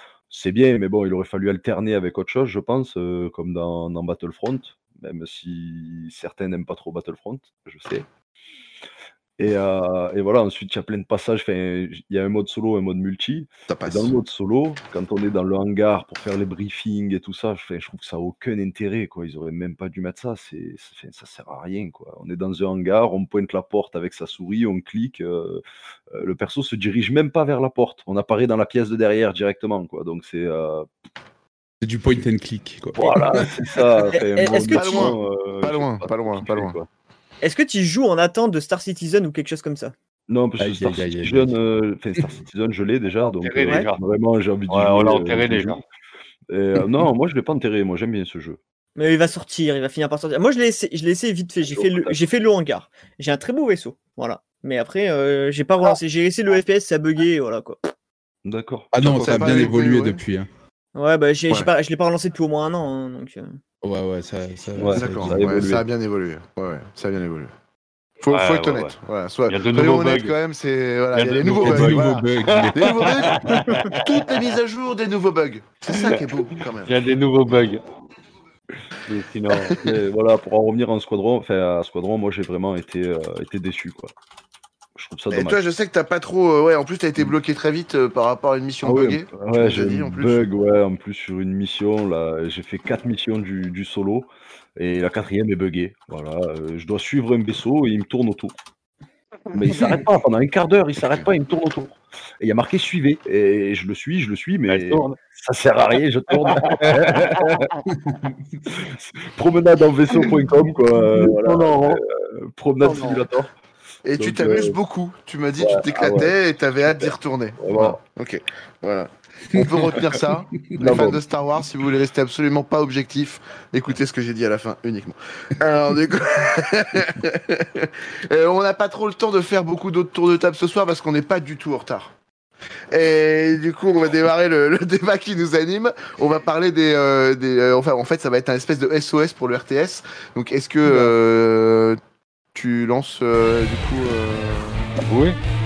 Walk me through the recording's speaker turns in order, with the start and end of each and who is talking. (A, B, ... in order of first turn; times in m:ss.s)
0:00.3-0:08.0 A
0:09.4-0:30.9 A
0:13.7-0:14.0 B
0:31.8-0:33.8 C
0:33.0-0:36.9 A
0:34.1-0:35.2 D
0:34.7-0:36.7 B
0:37.4-0:39.9 D
0:40.3-0:45.8 A
0:40.6-0:41.6 C
0:43.2-0:44.0 E
0:44.7-0:45.8 E
0:46.5-0:48.6 A
0:49.0-0:57.9 D
0:51.7-0:52.2 A
0:58.4-0:59.5 A
0:58.9-1:00.5 C
0:59.0-1:00.2 B
1:00.9-1:03.6 D
1:03.8-1:05.6 C
1:04.8-1:05.8 A
1:04.9-1:07.5 B
1:08.2-1:16.9 B
1:08.3-1:08.9 E
1:09.5-1:10.3 E
1:11.1-1:14.5 E
1:11.5-1:13.6 C
1:15.9-1:16.2 E
1:16.8-1:17.8 E
1:19.0-1:19.8 E
1:19.8-1:24.1 A
1:25.0-1:25.6 A
1:25.3-1:30.5 B
1:28.8-1:38.5 A
1:39.5-1:47.7 A
1:44.7-1:45.2 E
1:46.3-1:47.6 E
1:48.7-1:53.5 A
1:50.1-1:52.0 E
1:52.8-1:53.2 E
1:54.0-2:12.1 B
1:54.2-1:54.8 A
1:55.6-1:56.3 A
1:56.9-1:58.0 A
1:59.8-2:00.1 A
2:00.7-2:01.2 A
2:12.9-2:22.0 B
2:20.8-2:21.1 E
2:22.5-2:25.0 B
2:25.0-2:25.4 E